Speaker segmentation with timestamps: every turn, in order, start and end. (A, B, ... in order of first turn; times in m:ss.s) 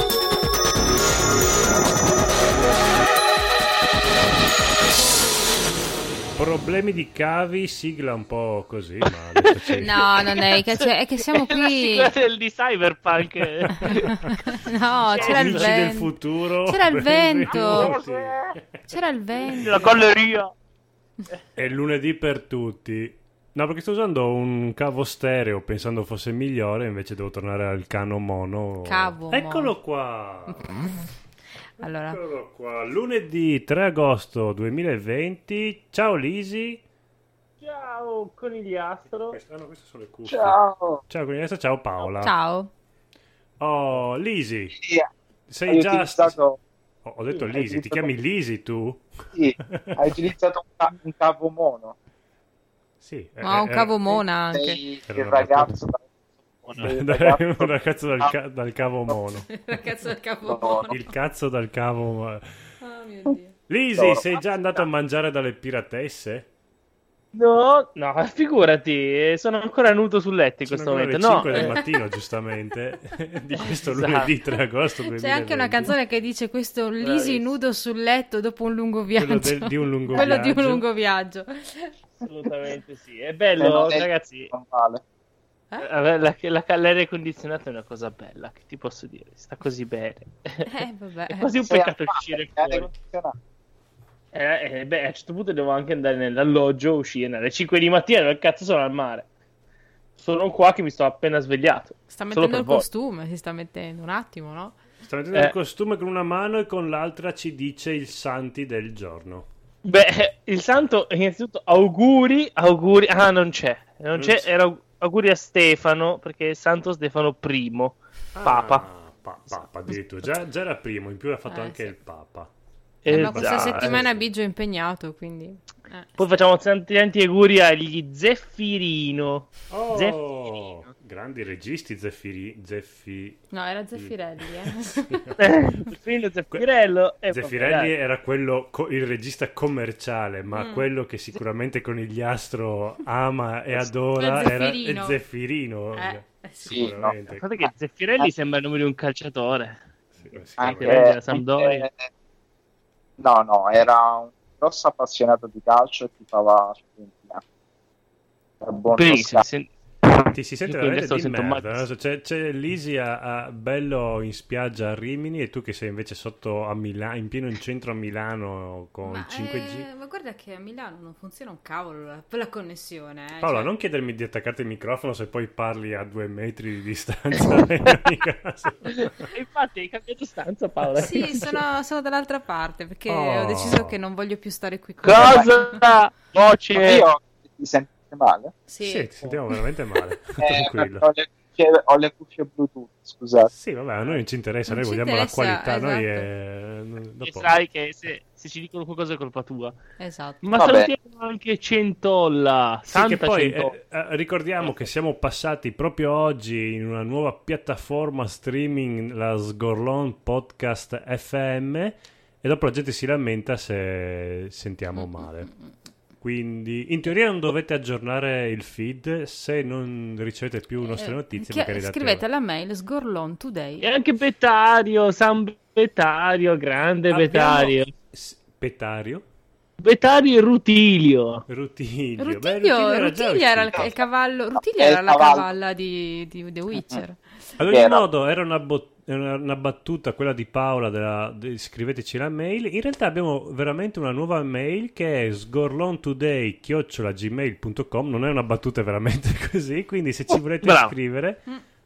0:06.4-0:10.1 A
0:09.6-0:10.7 B
0:09.8-0:12.1 C
0:11.3-0:14.3 B
0:13.8-0:16.1 C
0:15.0-0:15.7 B
0:15.1-0:18.8 A
0:16.7-0:18.0 C
0:17.5-0:18.6 B
0:18.9-0:19.9 C
0:19.5-0:20.0 A
0:19.5-0:20.5 B
0:21.6-0:30.7 A
0:28.8-0:29.7 C
0:30.5-0:31.0 C
0:31.8-0:36.8 A
0:31.8-0:32.2 C
0:37.6-0:39.4 B
0:39.3-0:42.3 A
0:40.2-0:41.0 D
0:42.2-0:42.7 C
0:43.6-0:44.8 A
0:44.7-0:45.1 D
0:45.5-0:46.4 A
0:45.7-0:46.6 D
0:47.0-0:49.1 A
0:47.5-0:48.1 D
0:49.3-0:52.0 D
0:49.6-0:50.0 A
0:53.0-0:54.0 A
0:53.4-0:54.8 C
0:54.5-0:56.0 D
0:55.0-0:55.8 A
0:56.6-0:58.3 D
0:56.8-0:59.5 A
0:59.5-1:01.0 C
1:00.4-1:00.9 D
1:00.9-1:02.4 A
1:02.8-1:03.6 C
1:03.7-1:06.5 A
1:04.0-1:04.8 D
1:07.3-1:11.8 B
1:10.7-1:16.0 A
1:13.8-1:14.3 B
1:15.0-1:21.9 C
1:17.0-1:17.5 B
1:19.2-1:20.8 A
1:22.2-1:24.5 B
1:23.6-1:25.0 D
1:25.8-1:30.7 B
1:30.6-1:31.5 C
1:31.3-1:32.9 B
1:31.6-1:33.3 D
1:34.3-1:39.3 B
1:40.2-1:42.9 B
1:42.1-1:44.9 C
1:45.0-1:49.5 A
1:49.8-1:58.9 B
1:54.1-1:54.4 A
1:58.3-2:02.5 A
2:01.5-2:01.9 C
2:03.0-2:04.0 B
2:03.1-2:06.1 C
2:03.1-2:04.3 A
2:06.2-2:10.2 B
2:09.7-2:13.4 A
2:13.5-2:15.2 C
2:13.9-2:15.4 A
2:15.4-2:17.9 B
2:17.3-2:27.4 A
2:20.5-2:20.8 C
2:24.2-2:25.2 C
2:25.9-2:27.0 C
2:26.6-2:27.1 D
2:27.3-2:29.8 B
2:30.2-2:31.1 A
2:30.6-2:32.1 D
2:30.8-2:31.9 B
2:33.2-2:37.4 D
2:38.6-2:39.4 D
2:39.0-2:41.8 B
2:40.2-2:49.9 A
2:49.0-2:53.7 C
2:53.4-2:59.3 A
2:58.9-3:01.6 B
3:00.9-3:05.8 C
3:03.1-3:03.9 A
3:05.0-3:07.1 B
3:06.7-3:08.5 D
3:08.7-3:09.1 C
3:08.8-3:11.0 A
3:10.4-3:13.5 D
3:13.5-3:17.6 A
3:14.7-3:16.3 C
3:17.2-3:19.8 B
3:20.0-3:20.4 C
3:20.4-3:23.7 B
3:20.6-3:20.9 D
3:22.9-3:35.5 A
3:35.0-3:35.4 C
3:36.2-3:42.2 A
3:40.9-3:43.9 C
3:43.8-3:47.9 B
3:47.1-3:49.2 A
3:49.8-3:51.4 B
3:51.5-3:54.0 A
3:52.2-3:57.2 C
3:54.6-3:55.5 D
3:57.6-4:11.4 A
3:57.7-3:58.1 D
4:10.3-4:10.9 B